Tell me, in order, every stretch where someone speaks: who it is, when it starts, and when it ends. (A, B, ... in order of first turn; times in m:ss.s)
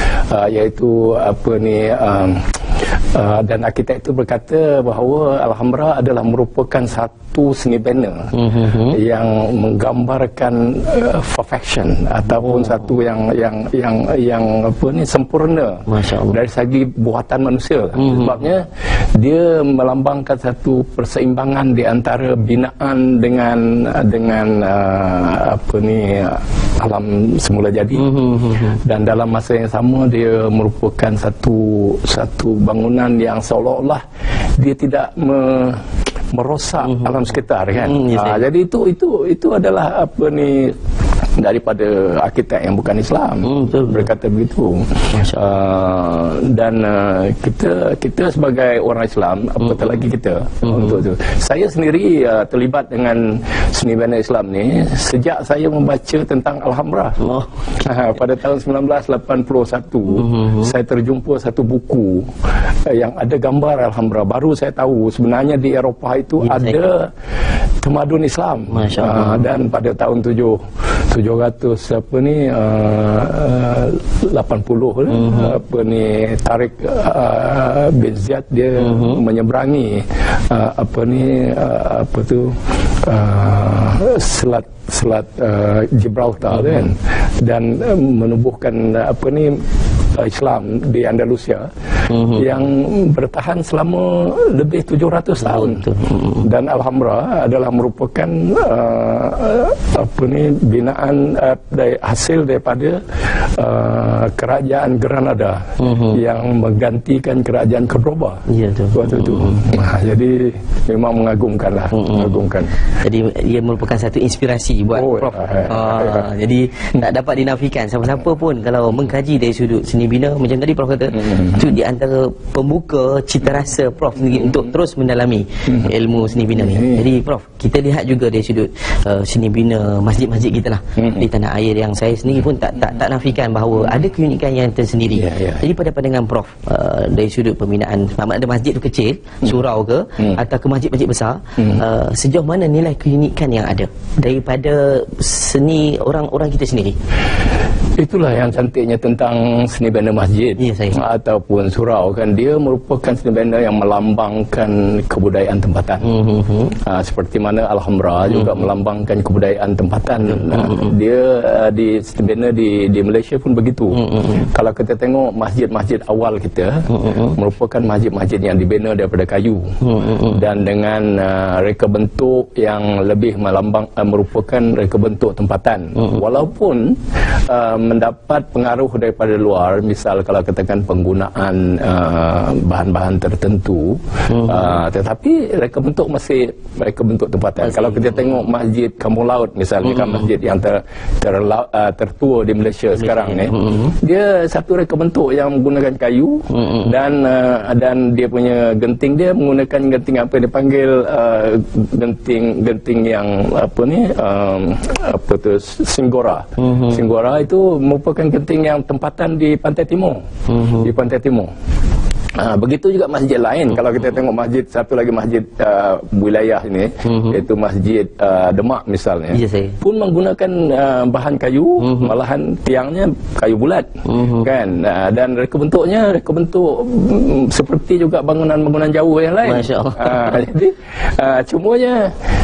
0:00.3-0:02.4 A
0:03.1-0:08.3 A
0:08.3-0:09.0 B
0:08.9-0:28.1 A
0:15.9-0:16.4 B
0:18.0-0:18.3 B
0:28.0-0:28.8 B
0:28.8-0:34.0 A
0:34.6-0:40.8 A
0:37.8-0:38.4 B
0:41.4-0:57.2 A
0:43.4-0:44.1 B
0:50.6-0:51.0 B
0:57.2-0:57.5 B
0:57.8-1:02.3 A
1:00.2-1:00.7 B
1:02.9-1:07.1 A
1:06.4-1:06.8 B
1:07.8-1:10.6 A
1:08.7-1:09.4 B
1:11.1-1:29.6 A
1:15.1-1:15.6 B
1:18.8-1:19.2 B
1:30.2-1:31.7 A
1:32.1-1:32.4 B
1:32.3-1:35.8 A
1:35.4-1:36.4 B
1:36.4-1:52.7 A
1:45.8-1:46.2 B
1:48.5-1:49.6 B
1:52.0-1:52.4 B
1:53.0-2:27.0 B
1:55.0-1:56.2 A
2:06.6-2:07.0 A
2:11.0-2:11.2 A
2:15.1-2:15.6 A
2:28.0-2:36.1 A
2:30.6-2:31.0 B
2:36.1-2:36.7 B
2:36.8-3:30.2 A
2:47.0-2:47.3 B
2:49.8-2:50.4 B
3:13.0-3:13.9 B
3:16.5-3:16.9 B
3:26.6-3:27.0 B
3:30.5-3:30.9 B
3:30.8-3:31.5 A
3:32.4-3:52.1 A
3:37.1-3:37.4 B
3:39.3-3:39.8 B
3:41.8-3:42.1 B
3:44.1-3:44.5 B
3:49.4-3:50.4 B